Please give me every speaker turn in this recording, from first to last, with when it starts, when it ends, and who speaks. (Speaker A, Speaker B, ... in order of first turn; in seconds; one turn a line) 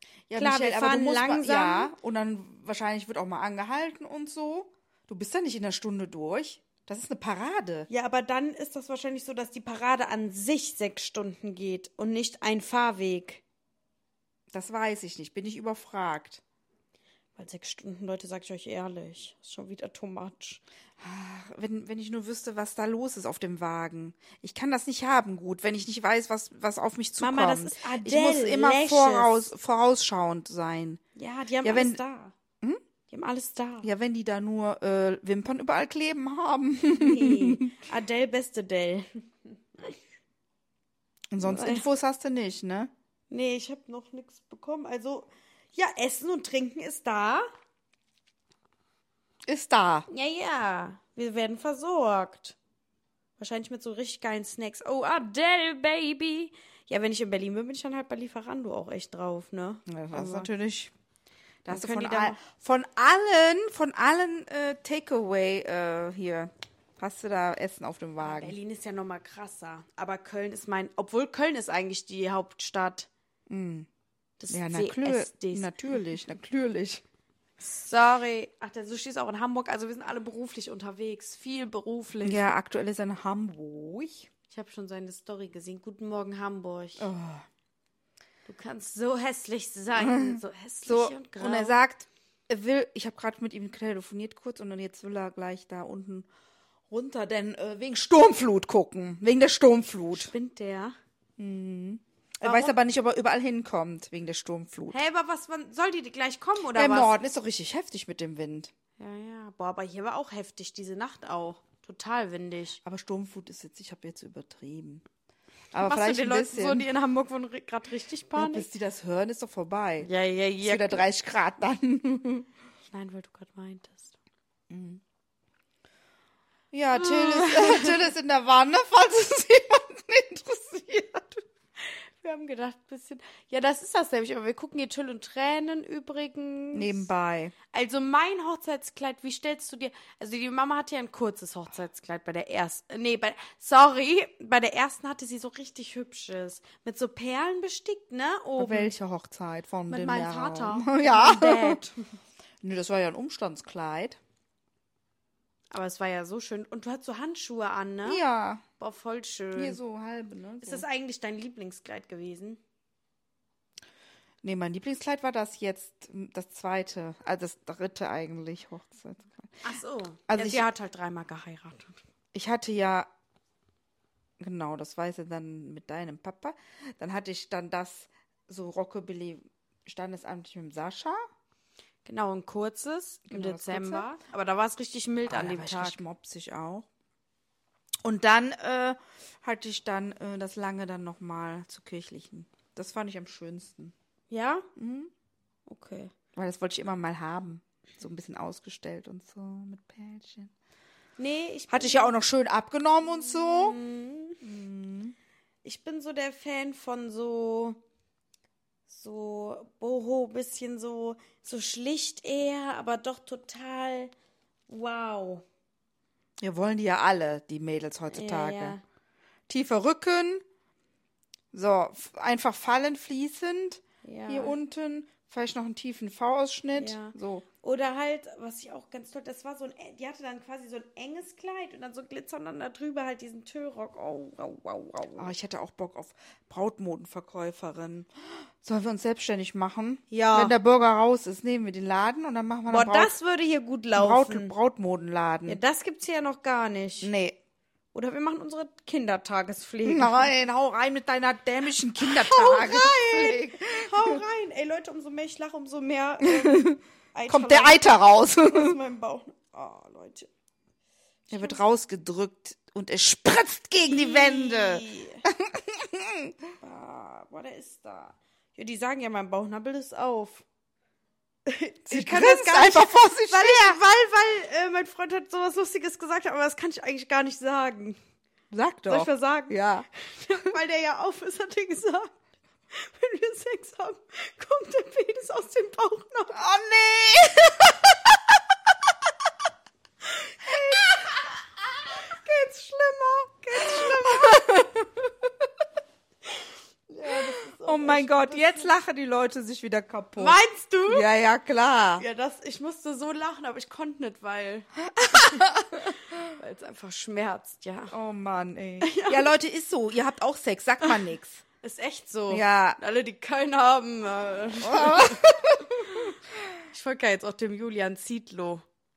Speaker A: 0.3-7.9
Speaker B: 0.3-1.9
Speaker B: 7.9-13.4
Speaker A: 14.5-16.4
Speaker B: 17.4-20.6
Speaker A: 21.0-31.0
Speaker B: 27.2-29.5
Speaker B: 31.1-32.3
Speaker A: 31.6-32.0
Speaker B: 33.1-33.9
Speaker A: 33.8-37.7
Speaker B: 36.9-40.0
Speaker A: 41.3-42.9
Speaker B: 41.4-41.9
Speaker B: 43.3-47.5
Speaker A: 49.5-50.1
Speaker B: 50.1-52.5
Speaker B: 53.4-60.5
Speaker A: 59.9-60.9
Speaker A: 61.6-68.5
Speaker B: 61.7-62.4
Speaker B: 68.2-73.1
Speaker A: 73.5-73.9
Speaker B: 74.4-75.7
Speaker A: 74.5-77.0
Speaker B: 77.6-82.5
Speaker A: 82.2-84.3
Speaker B: 84.5-87.1
Speaker A: 87.0-87.5
Speaker B: 88.5-91.8
Speaker A: 90.0-96.3
Speaker A: 96.9-100.3
Speaker B: 100.1-101.0
Speaker A: 101.4-105.0
Speaker B: 102.4-102.7
Speaker B: 104.9-107.2
Speaker A: 106.7-108.7
Speaker B: 109.0-112.8
Speaker A: 112.8-115.0
Speaker A: 115.7-116.9
Speaker B: 115.8-118.7
Speaker A: 118.3-120.1
Speaker B: 120.0-121.0
Speaker A: 120.6-122.5
Speaker B: 122.9-124.2
Speaker A: 124.7-125.0
Speaker A: 126.7-131.4
Speaker B: 126.9-128.0
Speaker B: 131.8-137.1
Speaker A: 136.7-137.5
Speaker B: 137.7-148.9
Speaker A: 148.6-151.8
Speaker B: 149.9-152.1
Speaker A: 152.6-154.2
Speaker B: 155.7-158.2
Speaker A: 158.0-158.6
Speaker B: 158.8-159.8
Speaker A: 159.6-160.8
Speaker B: 160.6-162.6
Speaker A: 164.4-169.5
Speaker B: 169.6-172.0
Speaker A: 170.3-170.7
Speaker A: 172.3-173.1
Speaker A: 174.4-181.2
Speaker B: 182.0-186.0
Speaker A: 183.3-184.1
Speaker A: 185.3-186.9
Speaker A: 188.0-193.9
Speaker B: 194.3-194.7
Speaker A: 194.8-195.1
Speaker B: 195.7-196.1
Speaker A: 196.3-200.5
Speaker B: 201.2-202.1
Speaker A: 201.7-203.8
Speaker B: 203.2-204.4
Speaker A: 204.4-205.1
Speaker B: 205.6-207.8
Speaker B: 208.9-214.1
Speaker B: 214.7-215.4
Speaker A: 216.4-218.8
Speaker B: 218.1-218.8
Speaker A: 219.5-220.4
Speaker A: 221.5-227.4
Speaker B: 224.0-224.6
Speaker B: 226.7-235.3
Speaker A: 235.2-243.1
Speaker B: 240.1-240.5
Speaker B: 242.7-244.5
Speaker A: 243.9-245.6
Speaker B: 245.4-247.1
Speaker A: 247.0-247.4
Speaker B: 247.9-250.3
Speaker A: 249.8-254.2
Speaker B: 252.0-257.8
Speaker A: 256.2-258.8
Speaker B: 258.4-260.3
Speaker B: 261.3-261.6
Speaker A: 261.3-266.3
Speaker B: 263.8-265.2
Speaker B: 266.6-270.4
Speaker B: 271.4-278.0
Speaker A: 271.9-273.8
Speaker A: 278.5-279.9
Speaker B: 278.9-282.2
Speaker B: 282.7-286.4
Speaker A: 286.3-288.3
Speaker B: 290.1-294.7
Speaker A: 290.6-291.1
Speaker A: 293.6-295.5
Speaker B: 296.9-298.7
Speaker A: 297.1-302.0
Speaker B: 300.2-301.1
Speaker B: 302.0-307.9
Speaker A: 305.0-305.9
Speaker A: 307.9-311.4
Speaker B: 308.8-309.3
Speaker B: 311.6-316.1
Speaker A: 312.3-312.8
Speaker A: 314.6-316.1
Speaker B: 316.7-318.6